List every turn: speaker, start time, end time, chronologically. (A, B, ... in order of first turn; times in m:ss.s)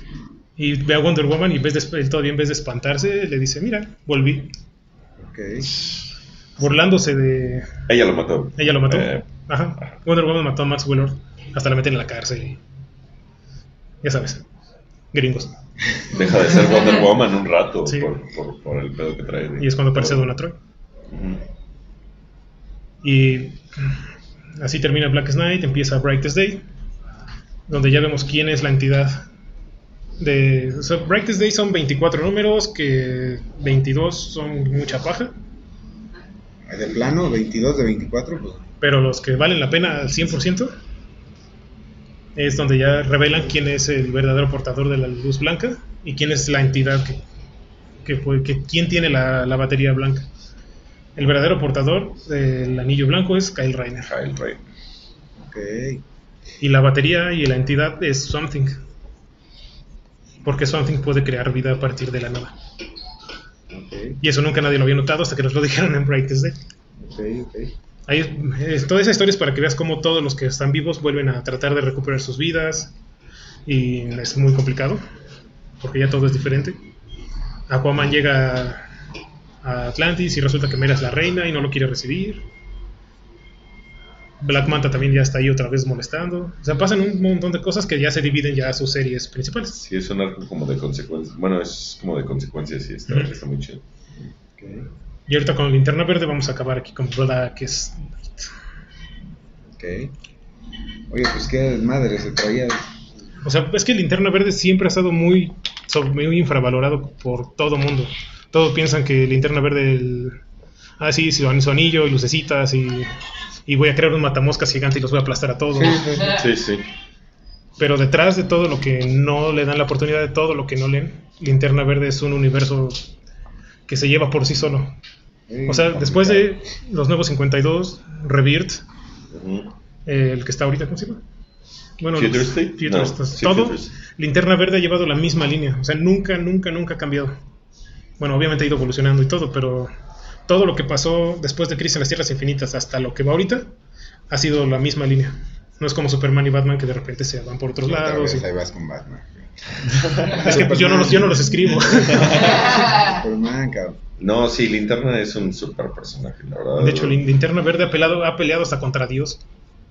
0:00.6-0:04.5 A
0:05.2-0:05.7 B
0:06.6-0:07.7 A
0:07.9-0:09.2 C
0:08.6-0:12.6 A
0:14.0-0:14.4 A
0:15.1-0:15.5 A
0:16.1-0:20.3 C
0:17.8-0:18.1 A
0:19.6-0:20.6 A
0:21.1-0:21.4 C
0:23.0-0:23.9 A
0:24.6-0:26.6 A
0:27.7-0:29.2 A
0:30.2-0:35.3 A
0:36.7-0:38.6 B
0:38.8-0:40.7 A
0:42.4-0:47.2 A
0:48.0-0:50.2 A
0:51.2-0:54.1 A
0:54.0-0:54.6 C
0:55.4-0:56.0 B
0:56.6-0:58.8 A
1:00.4-1:02.5 A
1:03.7-1:04.2 B
1:04.2-1:06.6 A
1:07.0-1:07.7 B
1:08.1-1:12.9 A
1:13.6-1:15.0 A
1:15.8-1:16.8 A
1:17.7-1:18.8 A
1:19.6-1:22.4 A
1:24.4-1:29.8 A
1:29.8-1:33.8 C
1:34.2-1:34.9 B
1:35.3-1:38.5 A
1:39.8-1:40.1 B
1:41.1-1:42.9 B
1:43.4-1:50.4 A
1:51.0-1:53.1 A
1:53.6-1:56.2 A
1:55.7-1:56.4 B
1:56.3-1:56.8 C
1:57.8-2:03.0 A
2:03.9-2:04.9 A
2:05.5-2:06.5 B
2:05.7-2:08.8 A
2:09.3-2:09.7 C
2:10.0-2:11.2 A
2:12.0-2:17.4 A
2:12.1-2:13.9 C
2:18.2-2:19.9 A
2:20.5-2:23.7 A
2:24.3-2:28.5 A
2:27.8-2:34.0 B
2:30.3-2:32.5 A
2:32.2-2:32.5 C
2:34.2-2:37.2 C
2:36.8-2:39.4 A